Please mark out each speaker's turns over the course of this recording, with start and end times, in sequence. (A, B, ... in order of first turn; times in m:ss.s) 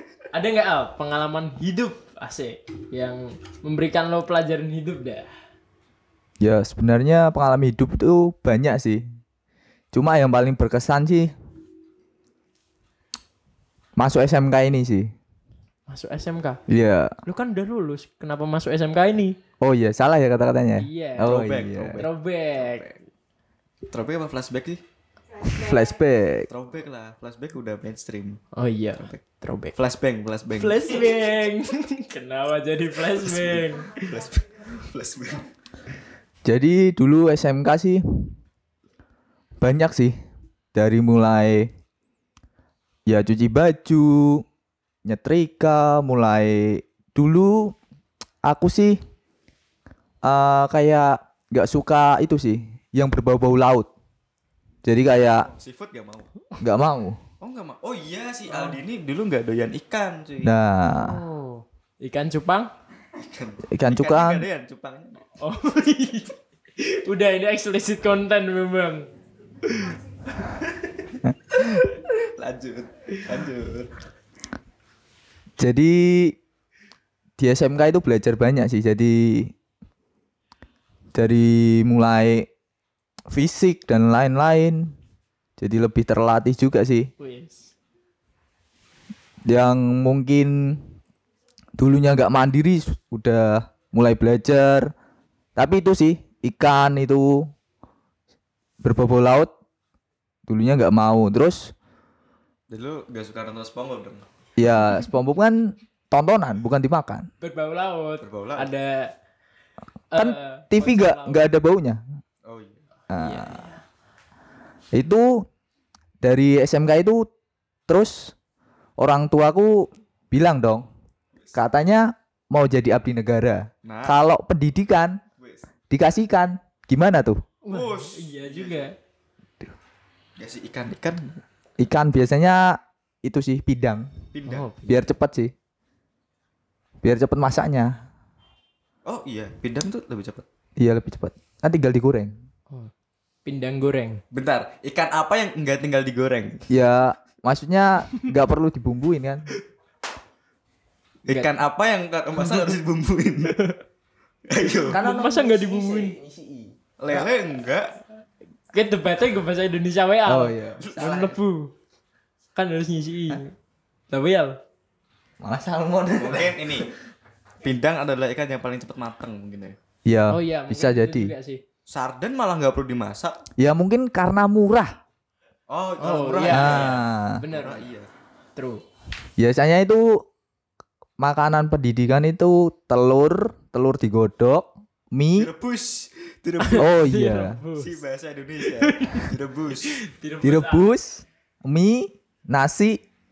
0:00.3-0:05.3 A
0:06.4-0:09.0 B
0:09.9-0:11.3 B
0:14.0-0:15.1 B
0:15.9-0:16.6 A
0:16.7-0:17.1 B
0:17.2-0:19.4 A
0:19.6-0:22.0 B
0:20.8-0:21.4 A
0:21.2-0:22.9 C
0:22.0-0:22.9 A
0:23.9-0:24.8 C
0:25.4-0:26.5 B
0:26.5-0:28.4 C
0:28.5-0:29.7 A
0:29.8-0:31.1 C
0:30.6-0:34.1 A
0:33.1-0:35.5 C
0:36.4-0:38.3 B
0:39.6-0:40.1 B
0:40.7-0:41.7 B
0:43.1-0:44.4 B
0:45.0-0:47.8 B
0:48.4-0:49.0 B
0:50.2-0:53.9 B
0:54.8-0:55.5 B
0:55.5-0:56.3 C
0:56.6-0:57.2 B
0:57.4-1:00.5 C
0:58.5-0:58.8 A
1:00.4-1:01.2 B
1:00.9-1:02.7 A
1:03.2-1:05.2 C
1:03.7-1:04.4 B
1:05.4-1:09.1 A
1:09.6-1:10.0 A
1:10.8-1:13.9 C
1:15.6-1:16.4 B
1:17.4-1:19.5 B
1:21.1-1:22.5 B
1:23.3-1:24.9 B
1:25.6-1:27.1 B
1:27.2-1:27.7 A
1:29.4-1:30.8 B
1:31.8-1:34.9 B
1:35.6-1:37.5 B
1:38.8-1:39.5 B
1:40.5-1:41.7 B
1:42.7-1:44.2 C
1:44.6-1:47.3 B
1:47.4-1:49.1 A
1:48.2-1:48.7 C
1:50.1-1:51.5 A
1:50.2-1:52.0 B
1:52.4-1:52.8 C
1:53.1-1:53.6 B
1:53.1-1:53.8 A
1:54.9-1:55.4 B
1:56.2-1:57.3 B
1:57.9-1:58.3 B
1:59.0-2:00.9 B
2:01.5-2:05.2 B
2:03.8-2:04.2 C
2:05.4-2:05.6 C
2:05.9-2:07.4 B
2:07.6-2:08.9 A
2:07.7-2:08.9 C
2:10.4-2:11.4 C
2:11.8-2:14.1 B
2:14.3-2:14.7 C
2:14.4-2:15.1 A
2:14.9-2:15.5 B
2:17.0-2:18.0 B
2:19.0-2:20.4 C
2:20.8-2:22.3 B
2:23.4-2:24.2 A
2:24.3-2:26.7 C
2:26.7-2:29.5 B
2:31.2-2:33.5 C
2:32.4-2:32.7 A
2:33.5-2:33.8 A
2:34.5-2:35.0 C
2:34.6-2:36.2 A
2:34.9-2:36.7 B
2:37.0-2:38.0 C
2:38.7-2:41.7 A
2:40.2-2:40.8 B
2:40.8-2:41.4 C
2:42.6-2:43.5 A
2:44.1-2:44.6 A
2:45.4-2:46.8 B
2:46.2-2:46.9 C
2:47.6-2:49.8 C
2:50.0-2:51.3 B
2:50.3-2:51.6 A
2:51.9-2:53.4 C
2:53.6-2:55.0 B
2:55.7-2:58.1 C
2:56.0-2:57.8 A
2:56.5-2:57.4 B
2:58.6-2:58.8 A
2:59.4-3:00.2 B
3:01.2-3:05.5 B
3:05.4-3:06.9 C
3:06.6-3:08.0 A
3:06.8-3:07.6 B
3:07.8-3:10.0 C
3:08.6-3:09.3 A
3:09.8-3:10.9 A
3:10.4-3:13.0 B